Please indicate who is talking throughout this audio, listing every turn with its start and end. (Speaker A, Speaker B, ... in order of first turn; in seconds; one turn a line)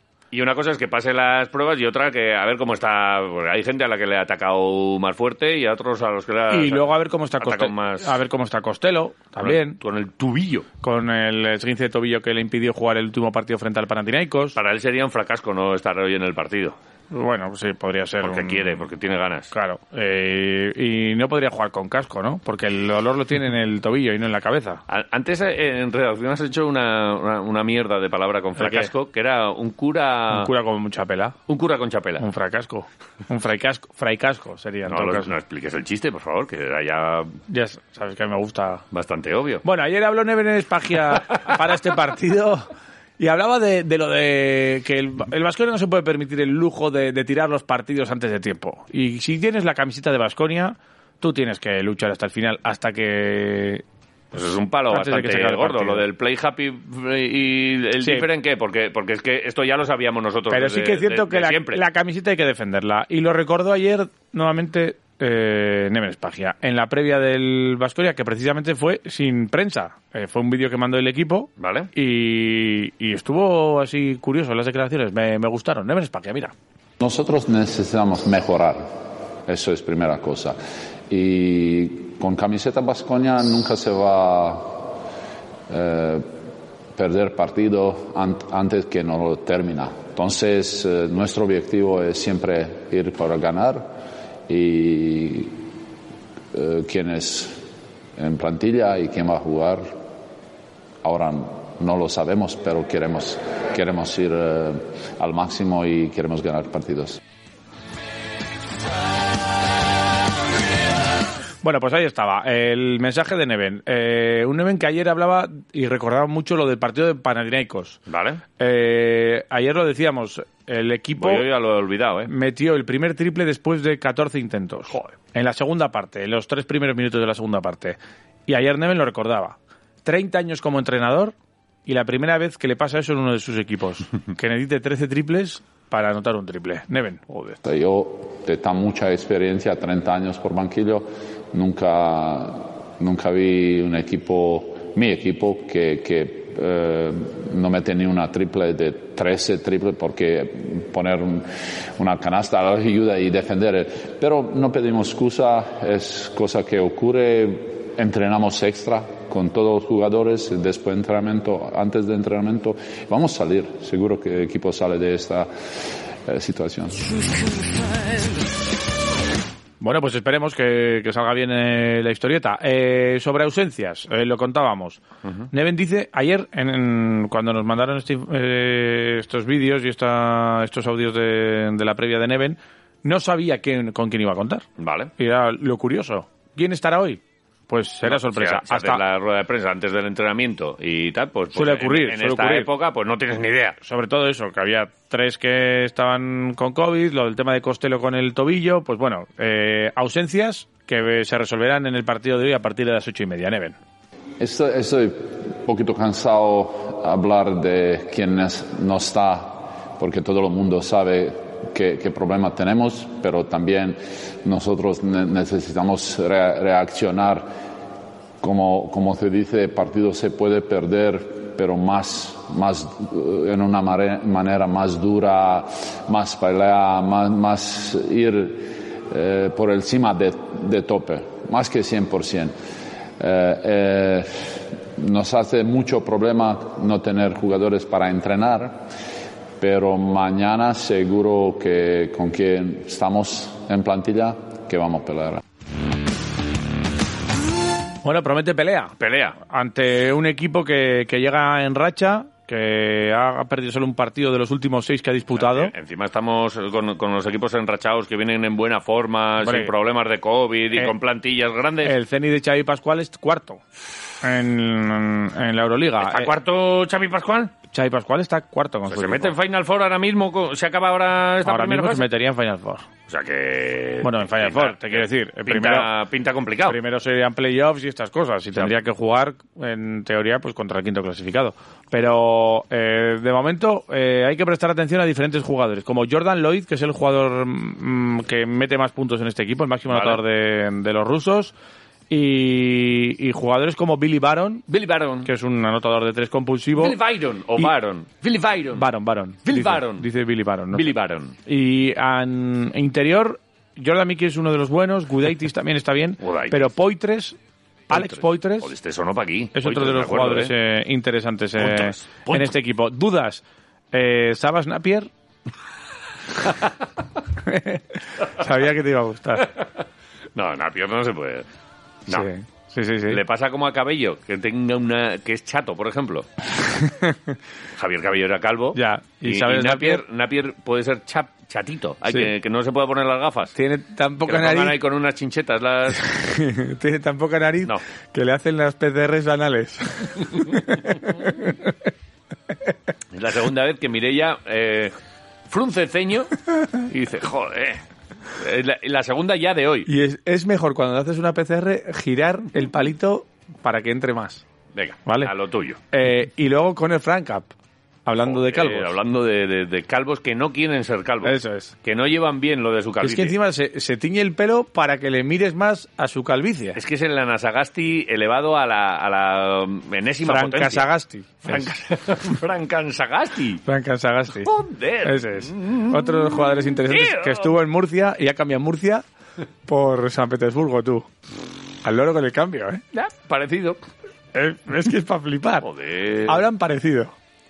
Speaker A: 0.3-8.2
Speaker B: 6.5-9.8
Speaker A: 9.4-10.7
Speaker B: 10.8-14.6
Speaker A: 14.6-16.8
Speaker B: 17.1-18.8
Speaker A: 18.2-19.5
Speaker B: 19.5-24.8
Speaker A: 24.9-30.5
Speaker B: 28.6-28.9
Speaker B: 30.3-31.4
Speaker A: 31.5-32.2
Speaker B: 32.2-35.3
Speaker A: 34.9-37.4
Speaker B: 37.5-38.8
Speaker A: 38.9-39.6
Speaker B: 39.6-53.8
Speaker A: 54.3-61.8
Speaker B: 54.9-56.0
Speaker B: 58.0-58.2
Speaker B: 60.5-76.5
Speaker A: 71.6-71.9
Speaker C: 77.0-80.6
Speaker C: 81.1-84.9
Speaker C: 85.7-86.3
Speaker C: 86.9-93.9
Speaker C: 94.5-95.6
Speaker C: 96.5-97.6
Speaker C: 98.2-100.0
Speaker C: 101.0-107.2
Speaker B: 111.6-118.0
Speaker A: 118.1-118.4
Speaker B: 118.6-121.5
Speaker A: 121.2-122.3
Speaker B: 122.3-131.3
Speaker B: 131.9-137.6
Speaker C: 137.6-167.3
Speaker B: 169.8-184.6
Speaker A: 184.8-185.1
Speaker B: 185.2-189.0
Speaker A: 188.1-193.8
Speaker B: 191.5-192.7
Speaker B: 193.8-203.8
Speaker C: 204.4-217.5
Speaker C: 218.4-232.5
Speaker C: 233.2-238.9
Speaker C: 239.6-245.4
Speaker B: 248.0-255.7
Speaker A: 249.0-249.4
Speaker A: 255.4-261.9
Speaker B: 259.4-259.7
Speaker B: 261.8-263.6
Speaker B: 264.2-266.3
Speaker A: 266.0-267.6
Speaker B: 267.7-269.3
Speaker A: 268.9-272.1
Speaker B: 271.4-272.9
Speaker A: 273.1-276.8
Speaker B: 274.0-275.9
Speaker B: 276.7-291.5
Speaker A: 289.9-290.2
Speaker B: 292.1-294.6
Speaker A: 294.7-295.3
Speaker B: 295.2-297.0
Speaker A: 296.8-298.9
Speaker B: 298.7-300.9
Speaker A: 299.4-300.1
Speaker A: 300.7-301.4
Speaker B: 301.4-307.4
Speaker A: 306.2-306.7
Speaker B: 307.9-308.7
Speaker A: 307.9-310.5
Speaker B: 309.6-315.1
Speaker A: 311.6-312.5
Speaker B: 317.4-319.5
Speaker A: 320.4-321.4
Speaker B: 322.1-323.2
Speaker A: 323.1-326.3
Speaker B: 326.8-327.4
Speaker A: 327.8-333.6
Speaker B: 328.7-330.0
Speaker B: 333.6-334.8
Speaker A: 334.3-336.1
Speaker B: 336.0-341.7
Speaker A: 343.1-344.9
Speaker A: 345.5-347.8
Speaker A: 348.4-349.9
Speaker B: 349.9-354.4
Speaker A: 354.7-355.8
Speaker B: 355.1-355.3
Speaker B: 355.9-357.5
Speaker B: 358.1-358.9
Speaker A: 358.2-363.3
Speaker B: 361.2-361.7
Speaker B: 363.0-366.8
Speaker A: 366.8-370.9
Speaker B: 370.2-371.8
Speaker A: 371.4-373.6
Speaker B: 373.6-374.5
Speaker A: 374.4-377.5
Speaker B: 375.0-379.0
Speaker B: 379.7-381.1
Speaker B: 381.8-382.8
Speaker A: 382.9-383.8
Speaker B: 384.3-385.7
Speaker A: 385.6-386.4
Speaker B: 386.3-387.1